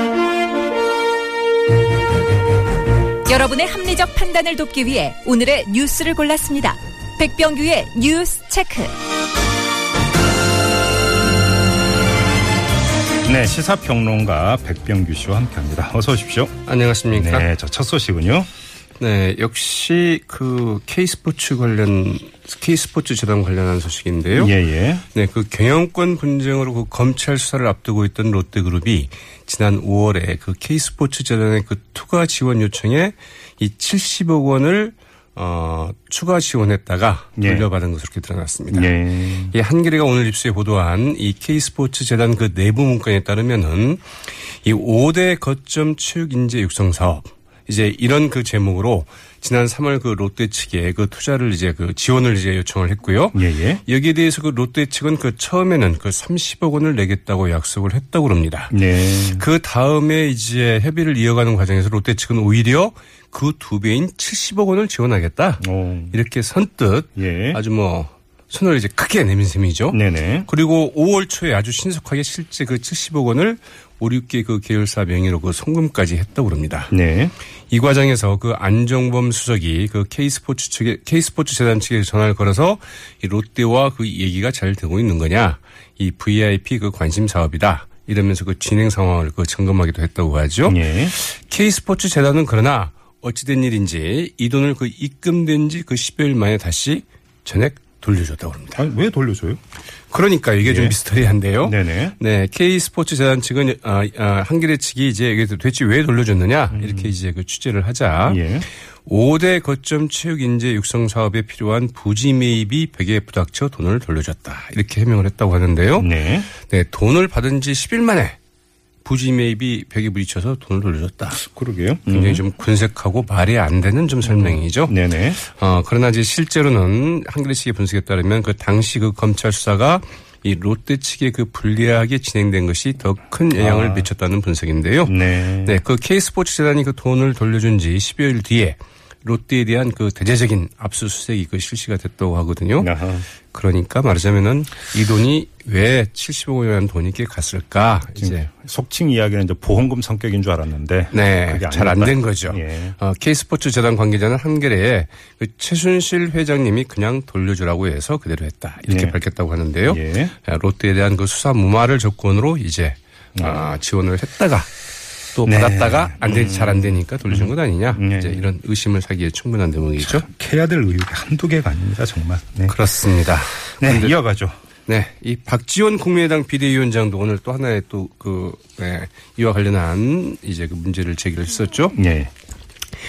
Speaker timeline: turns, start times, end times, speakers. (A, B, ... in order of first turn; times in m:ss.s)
0:03.2-0:08.9 A
0:13.2-0:16.5 B
0:16.6-0:17.5 C
0:17.1-0:18.5 B
0:19.0-0:24.6 C
0:24.4-0:25.0 B
0:25.1-0:39.0 C
0:37.4-0:37.7 B
0:38.7-0:39.5 B
0:39.5-0:44.0 C
0:44.6-1:16.9 C
0:53.3-0:53.8 B
0:58.7-0:59.4 B
1:05.6-1:06.2 B
1:07.2-1:07.6 B
1:09.9-1:10.5 B
1:16.9-1:17.3 B
1:17.7-1:38.8 C
1:30.6-1:31.2 B
1:38.8-1:39.6 B
1:40.1-1:48.4 C
1:40.6-1:41.0 B
1:41.6-1:42.2 B
1:46.7-1:47.1 B
1:48.2-1:48.6 B
1:49.0-1:58.4 C
1:56.0-1:56.5 B
1:59.0-2:01.4 C
2:01.4-2:02.4 B
2:02.1-2:22.9 C
2:04.2-2:05.4 B
2:13.6-2:14.1 B
2:15.0-2:15.8 B
2:22.8-2:23.3 B
2:23.5-2:28.5 C
2:28.2-2:33.0 B
2:31.1-2:44.7 C
2:38.9-2:39.2 B
2:39.9-2:40.3 B
2:43.4-2:43.6 B
2:45.3-2:50.2 C
2:45.4-2:48.5 B
2:50.0-2:52.8 B
2:52.6-2:54.2 C
2:53.8-2:54.5 B
2:54.8-3:02.0 C
3:01.9-3:02.3 B